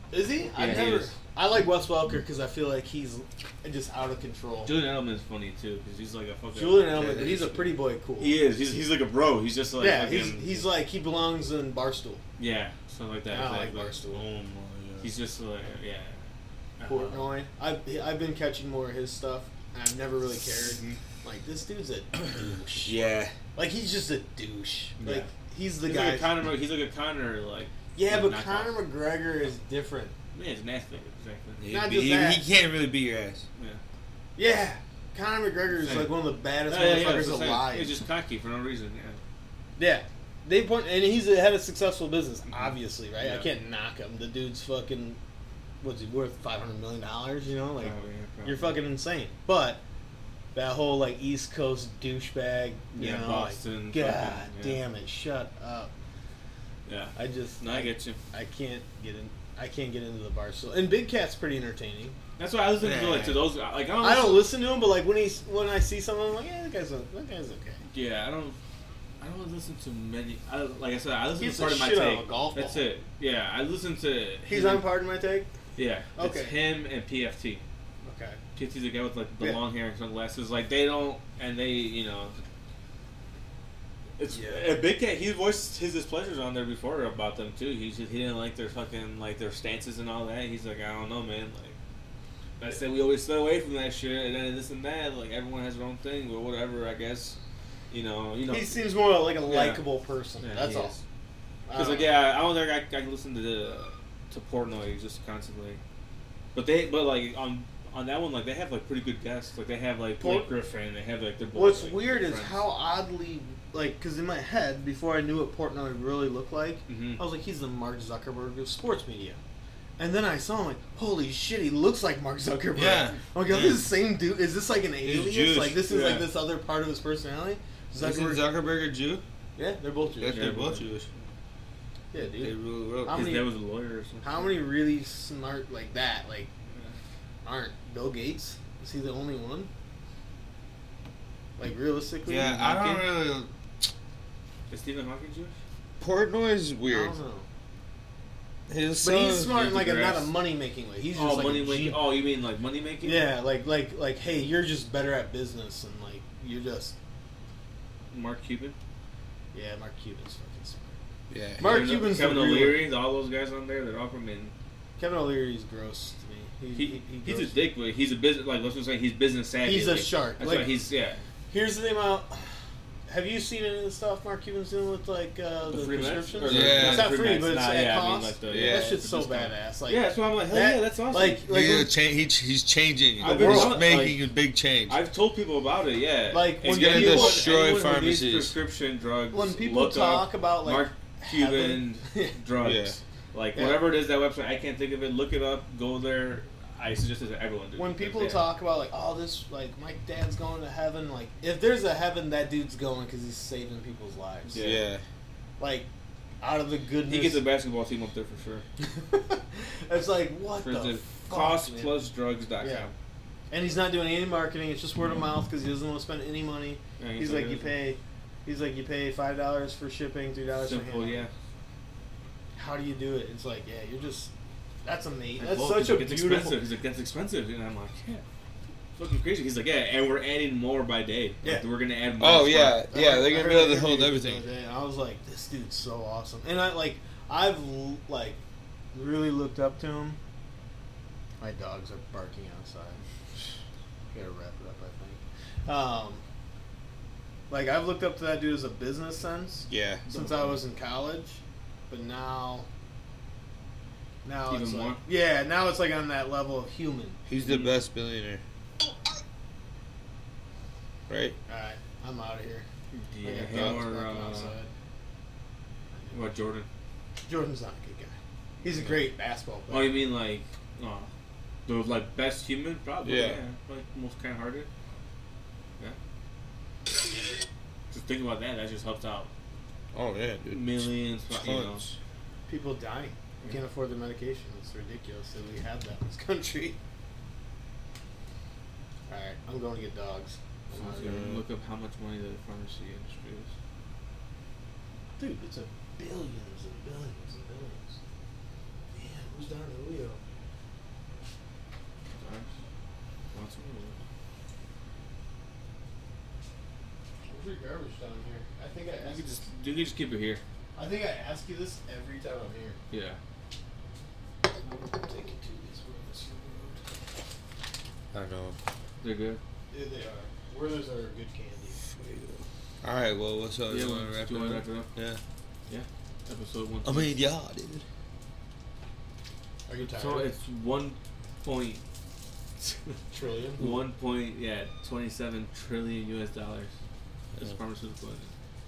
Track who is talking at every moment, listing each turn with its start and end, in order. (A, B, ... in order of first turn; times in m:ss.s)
0:00.1-0:04.7 A
0:00.5-0:01.1 B
0:04.6-0:10.6 B
0:06.5-0:08.4 A
0:07.0-0:07.3 C
0:09.8-0:12.2 A
0:12.4-0:14.1 B
0:13.3-0:14.2 A
0:14.0-0:15.1 C
0:15.0-0:16.2 B
0:16.8-0:17.3 B
0:16.8-0:23.0 A
0:20.7-0:21.0 B
0:22.8-0:23.3 C
0:23.5-0:26.3 A
0:25.0-0:25.3 B
0:25.8-0:28.8 B
0:27.9-0:30.1 A
0:30.3-0:31.6 B
0:31.6-0:33.4 C
0:31.7-0:32.5 A
0:34.4-0:37.9 A
0:35.8-0:39.2 B
0:39.8-0:45.2 A
0:42.5-0:43.5 B
0:45.8-0:49.8 A
0:47.8-0:48.8 B
0:50.5-0:55.9 A
0:52.9-0:54.8 B
0:56.9-0:58.2 B
0:57.1-1:02.2 A
1:02.4-1:04.5 B
1:02.8-1:03.4 C
1:04.0-1:07.8 A
1:07.9-1:08.6 B
1:09.2-1:14.9 B
1:11.4-1:12.9 A
1:14.5-1:15.5 A
1:15.8-1:17.6 B
1:16.2-1:16.6 A
1:18.0-1:18.4 A
1:18.6-1:22.4 B
1:24.2-1:31.8 B
1:24.3-1:24.7 A
1:32.6-1:37.4 B
1:37.9-1:38.8 B
1:38.5-1:41.0 A
1:39.4-1:39.8 B
1:40.4-1:41.0 B
1:41.7-1:42.2 A
1:41.7-1:45.8 B
1:46.5-1:52.6 B
1:50.2-1:50.5 A
1:51.5-1:59.4 A
1:56.9-1:57.2 B
2:00.0-2:08.4 A
2:02.7-2:03.8 C
2:05.0-2:05.8 C
2:05.9-2:06.3 B
2:08.0-2:09.2 C
2:09.6-2:10.6 A
2:10.2-2:11.1 C
2:10.3-2:11.3 B
2:12.1-2:13.5 A
2:12.4-2:13.4 C
2:13.1-2:14.6 B
2:14.2-2:16.5 A
2:16.7-2:17.0 B
2:17.4-2:19.7 A
2:21.6-2:22.6 A
2:22.2-2:23.5 C
2:22.4-2:23.0 B
2:24.7-2:25.5 B
2:26.0-2:27.2 C
2:26.9-2:27.5 A
2:28.7-2:29.6 C
2:29.0-2:32.0 A
2:29.5-2:30.3 B
2:31.1-2:33.3 B
2:33.0-2:36.9 A
2:38.1-2:38.8 B
2:39.5-2:41.0 A
2:41.3-2:41.8 C
2:41.6-2:42.8 A
2:41.6-2:44.5 B
2:45.0-2:47.6 A
2:46.7-2:51.2 B
2:49.6-2:50.8 A
2:51.5-2:52.5 A
2:53.1-3:01.9 A
2:55.7-3:01.4 B
2:56.5-2:57.2 C
2:58.5-2:59.0 C
3:01.4-3:05.0 C
3:03.2-3:04.2 B
3:03.2-3:03.8 A
3:04.9-3:18.4 B
3:06.3-3:07.5 A
3:06.6-3:08.5 C
3:09.3-3:12.4 A
3:12.6-3:13.0 C
3:13.6-3:13.9 A
3:17.8-3:24.7 A
3:24.5-3:24.8 B
3:24.6-3:25.0 C
3:25.6-3:25.9 A
3:26.4-3:27.4 A
3:27.0-3:28.6 B
3:28.8-3:32.0 A
3:30.6-3:32.9 B
3:32.6-3:32.9 A
3:33.5-3:41.3 A
3:37.0-3:37.7 B
3:40.6-3:41.3 B
3:42.5-3:44.3 A
3:44.8-3:46.6 A
3:45.4-3:48.2 B
3:49.0-3:52.8 B
3:52.2-3:54.4 C
3:52.9-3:58.4 A
3:58.9-4:00.2 A
4:01.4-4:03.0 A
4:04.1-4:06.2 A
4:07.5-4:12.7 A
4:09.7-4:10.0 C
4:10.1-4:10.6 B
4:14.2-4:17.2 A
4:14.5-4:15.0 B
4:17.3-4:18.4 C
4:17.4-4:17.8 B
4:21.1-4:21.4 C
4:21.5-4:22.6 A
4:22.9-4:24.5 B
4:23.2-4:24.7 A
4:23.5-4:23.8 C
4:26.1-4:26.7 B
4:27.2-4:30.0 A
4:28.6-4:29.1 B
4:29.7-4:31.1 B
4:31.6-4:34.7 B
4:33.0-4:33.4 C
4:37.9-4:39.3 B
4:39.9-4:42.0 C
4:40.5-4:41.9 B
4:42.5-4:46.8 A
4:49.1-4:51.3 A
4:50.7-4:53.5 B
4:51.0-4:51.4 C
4:55.2-4:58.0 A
4:58.9-5:00.2 A
5:02.1-5:02.5 B
5:03.3-5:04.0 B
5:07.2-5:09.4 A
5:09.0-5:10.4 B
5:10.7-5:12.8 A
5:12.9-5:13.2 B
5:14.9-5:16.8 A
5:18.1-5:18.6 C
5:19.0-5:19.4 B
5:19.7-5:21.8 A
5:22.8-5:25.2 C
5:23.7-5:24.9 B
5:25.7-5:27.1 B
5:26.8-5:27.8 C
5:29.7-5:30.3 A
5:29.8-5:31.8 B
5:32.6-5:33.0 B
5:33.1-5:33.6 A
5:33.6-5:36.7 B
5:37.4-5:38.3 B